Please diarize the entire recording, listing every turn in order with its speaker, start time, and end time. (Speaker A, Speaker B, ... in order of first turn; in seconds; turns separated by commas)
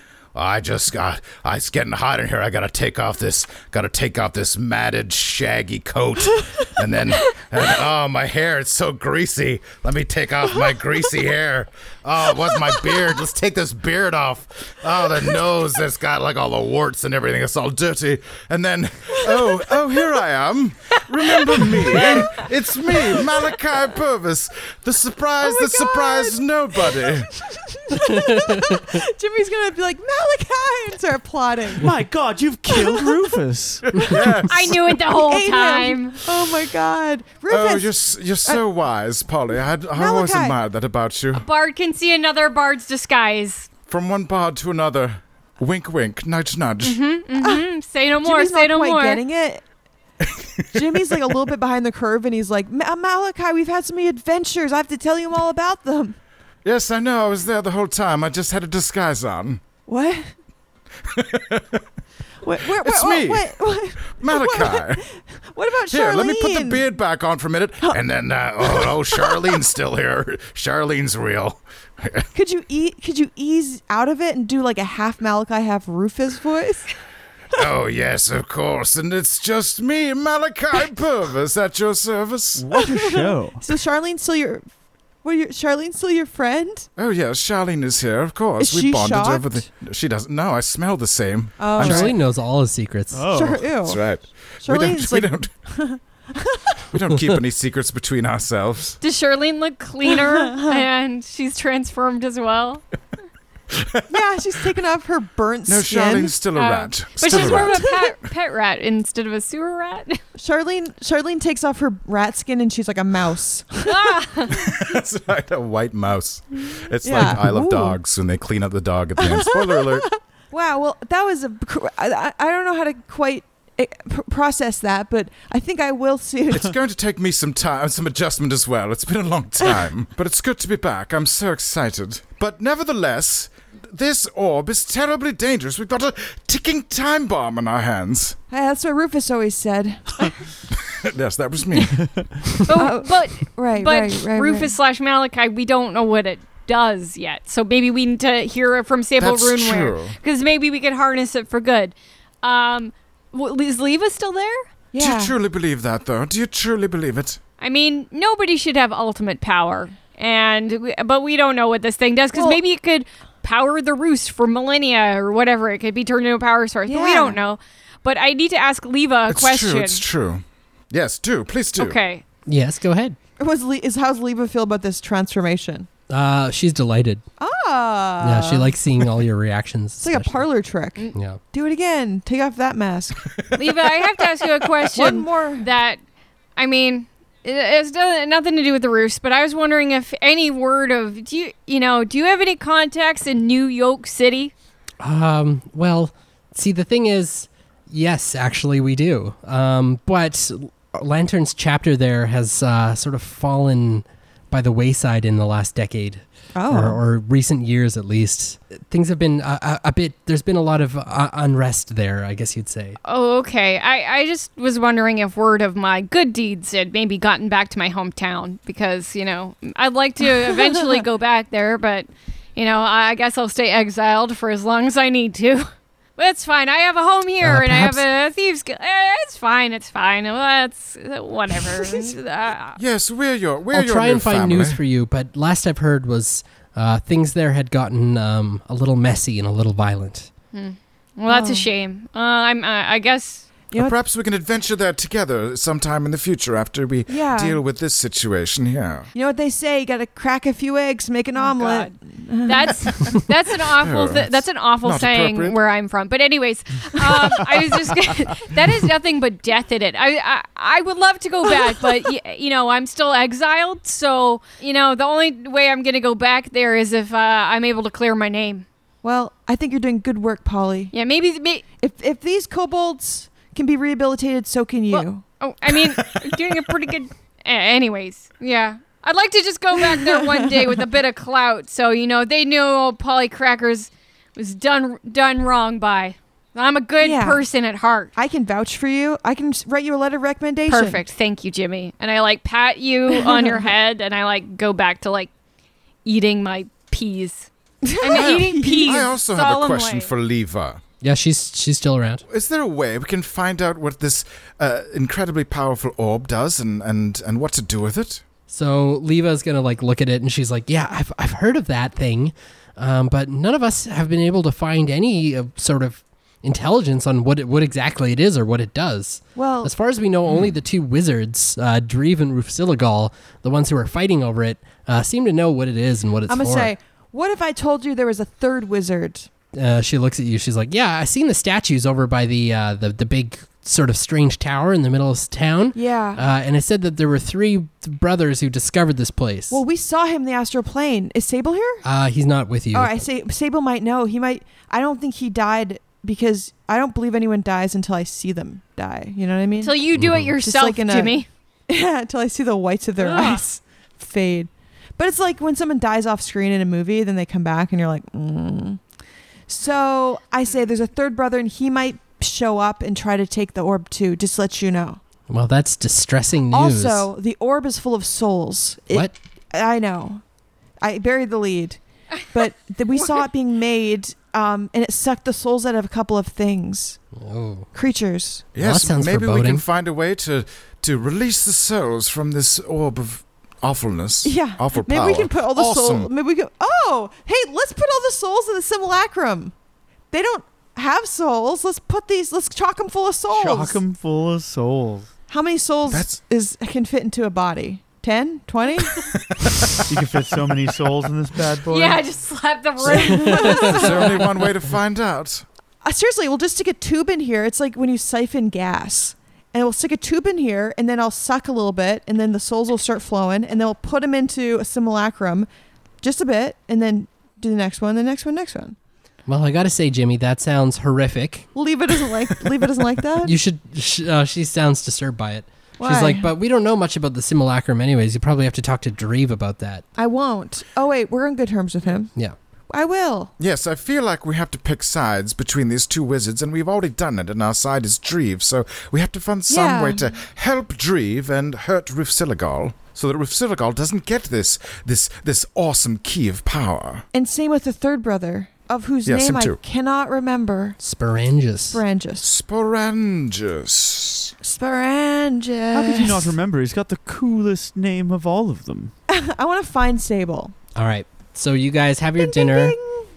Speaker A: 0.3-27.3, Speaker B: 21.7-22.3, Speaker B: 25.4-31.9, Speaker C: 28.0-28.8, Speaker D: 31.8-34.1, Speaker B: 32.8-33.2, Speaker A: 33.9-35.0, Speaker E: 34.5-36.2, Speaker B: 35.0-37.9, Speaker A: 37.5-41.5, Speaker B: 40.0-40.6, Speaker E: 41.3-43.7, Speaker A: 43.9-47.0, Speaker E: 46.8-49.2, Speaker B: 47.4-47.6, Speaker B: 48.2-49.6, Speaker A: 50.3-50.6, Speaker B: 50.7-56.2, Speaker A: 56.6-59.6, Speaker B: 59.9-60.3, Speaker A: 61.0-61.8, Speaker B: 62.4-66.8, Speaker A: 62.7-63.5, Speaker A: 64.2-65.0, Speaker A: 65.9-72.3, Speaker B: 68.6-69.6, Speaker B: 72.3-76.9, Speaker A: 77.5-82.7, Speaker D: 82.6-83.6, Speaker B: 82.8-84.7, Speaker B: 85.2-86.9, Speaker A: 87.0-92.1, Speaker B: 88.6-89.6, Speaker B: 91.6-92.2, Speaker C: 91.8-93.2, Speaker D: 93.1-93.7, Speaker B: 93.3-94.0, Speaker A: 93.8-95.5, Speaker B: 94.6-96.8, Speaker A: 96.9-99.0, Speaker E: 99.0-102.8, Speaker B: 100.4-100.8, Speaker A: 103.7-104.0, Speaker B: 104.1-106.3, Speaker A: 105.7-108.0, Speaker E: 106.5-110.2, Speaker B: 107.3-108.0, Speaker B: 110.4-114.2, Speaker E: 113.8-114.7, Speaker A: 114.5-120.1, Speaker B: 117.0-118.0, Speaker B: 119.2-126.7, Speaker A: 126.5-138.4, Speaker B: 138.5-140.4, Speaker A: 140.7-142.0, Speaker D: 141.9-142.4, Speaker E: 142.6-154.6, Speaker B: 142.7-144.7, Speaker A: 149.2-150.2, Speaker B: 154.9-155.3, Speaker A: 155.0-157.4, Speaker E: 157.6-170.0, Speaker B: 162.3-162.6, Speaker B: 166.9-167.4, Speaker A: 169.3-172.0, Speaker E: 171.8-172.2, Speaker C: 172.5-173.2, Speaker B: 173.4-175.9, Speaker C: 176.1-177.2, Speaker B: 177.4-178.7, Speaker C: 178.2-180.5, Speaker B: 180.0-183.3, Speaker C: 181.1-181.4, Speaker A: 183.3-184.8, Speaker E: 183.6-186.0, Speaker B: 184.9-185.7, Speaker E: 186.6-194.5, Speaker C: 195.0-213.0, Speaker B: 206.6-207.0, Speaker E: 213.0-232.8, Speaker C: 227.4-228.0, Speaker A: 232.8-234.8, Speaker C: 233.7-240.3, Speaker E: 240.5-243.5, Speaker B: 241.3-241.7, Speaker A: 243.8-249.1, Speaker B: 247.1-247.6, Speaker B: 249.1-253.2, Speaker E: 251.4-268.6, Speaker A: 253.8-255.6, Speaker B: 269.0-270.9, Speaker E: 270.9-271.6, Speaker B: 271.8-275.2, Speaker E: 274.9-288.1, Speaker A: 275.7-276.6, Speaker B: 279.9-280.6, Speaker B: 287.0-287.4, Speaker B: 288.1-291.0, Speaker E: 290.7-295.3, Speaker B: 293.2-293.7, Speaker E: 296.1-300.1, Speaker B: 297.8-299.1, Speaker A: 298.1-300.8, Speaker C: 301.0-302.2, Speaker A: 302.3-308.2, Speaker C: 308.5-326.7, Speaker B: 319.4-319.7, Speaker A: 320.3-320.5, Speaker B: 326.3-329.3, Speaker C: 329.5-339.6, Speaker B: 335.8-336.2, Speaker B: 339.5-341.8, Speaker C: 341.8-343.0, Speaker B: 342.7-349.8, Speaker E: 349.6-351.3, Speaker C: 349.9-350.4, Speaker B: 350.4-351.2, Speaker B: 351.7-358.8, Speaker E: 353.0-353.4, Speaker B: 359.5-365.0, Speaker C: 365.3-367.1, Speaker B: 366.5-370.2, Speaker B: 370.8-377.0, Speaker E: 373.0-373.2, Speaker C: 377.1-377.7, Speaker B: 377.7-378.5, Speaker A: 378.6-386.1, Speaker C: 378.6-379.6, Speaker B: 384.2-389.5, Speaker B: 390.1-393.8, Speaker D: 393.3-395.1, Speaker B: 395.3-399.1, Speaker A: 395.9-396.2, Speaker A: 398.9-399.9, Speaker D: 399.9-402.0, Speaker E: 401.7-404.3, Speaker B: 402.9-404.3, Speaker C: 403.0-403.4, Speaker A: 403.5-405.4, Speaker B: 405.8-415.5, Speaker B: 416.0-418.8, Speaker C: 419.3-421.5, Speaker B: 421.6-423.4, Speaker C: 423.2-429.9, Speaker B: 425.8-426.3, Speaker B: 430.0-432.1, Speaker B: 432.7-433.3, Speaker A: 433.4-447.1, Speaker B: 439.5-440.1, Speaker B: 447.1-450.8, Speaker A: 449.1-449.6, Speaker C: 450.8-451.8, Speaker B: 451.7-452.3, Speaker A: 452.2-454.3, Speaker B: 454.4-456.4, Speaker D: 455.7-458.9, Speaker B: 459.1-460.6, Speaker C: 460.8-462.8, Speaker B: 462.2-463.1